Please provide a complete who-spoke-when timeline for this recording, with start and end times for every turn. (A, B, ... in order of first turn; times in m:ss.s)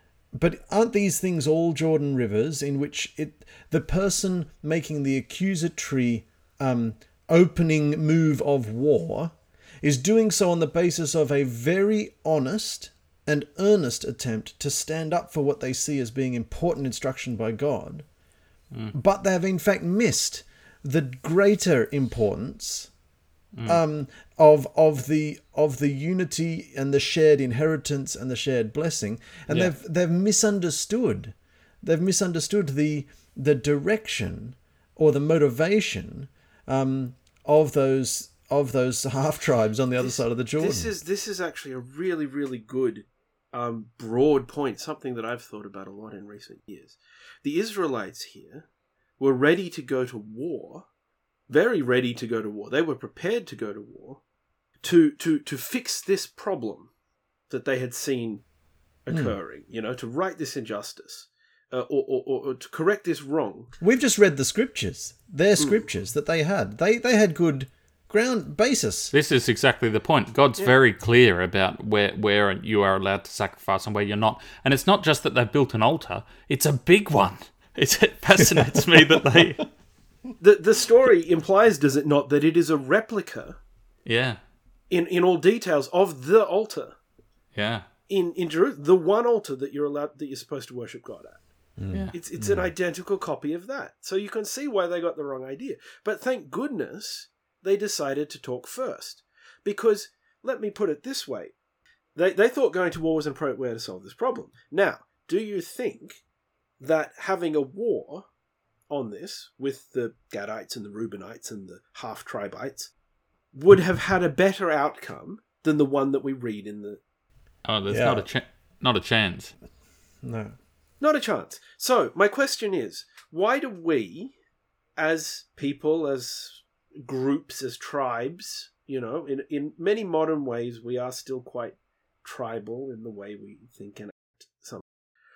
0:00.3-0:18.0 A
0:18.9-0:22.9 A
0:23.5-0:23.8 B
0:23.6-0:40.9 A
0:40.0-0:48.6 C
0:49.2-0:50.9 C
0:51.5-0:54.2 C
0:54.8-0:56.9 C
0:57.5-0:58.4 C
0:59.0-1:03.7 C
0:59.1-0:59.4 A
1:03.8-1:09.1 A
1:05.6-1:05.9 C
1:09.1-1:19.6 B
1:18.6-1:19.5 A
1:20.4-1:23.6 C
1:24.0-1:24.4 B
1:24.9-1:27.0 C
1:27.5-1:27.9 B
1:28.1-1:31.4 C
1:31.8-1:32.7 A
1:32.1-1:41.5 C
1:42.1-1:46.2 C
1:46.8-1:48.2 C
1:48.9-1:52.9 C
1:53.5-1:57.0 C
1:57.6-1:59.5 B
1:57.9-1:58.2 A
2:00.2-2:00.5 A
2:01.0-2:04.3 C
2:05.0-2:14.8 C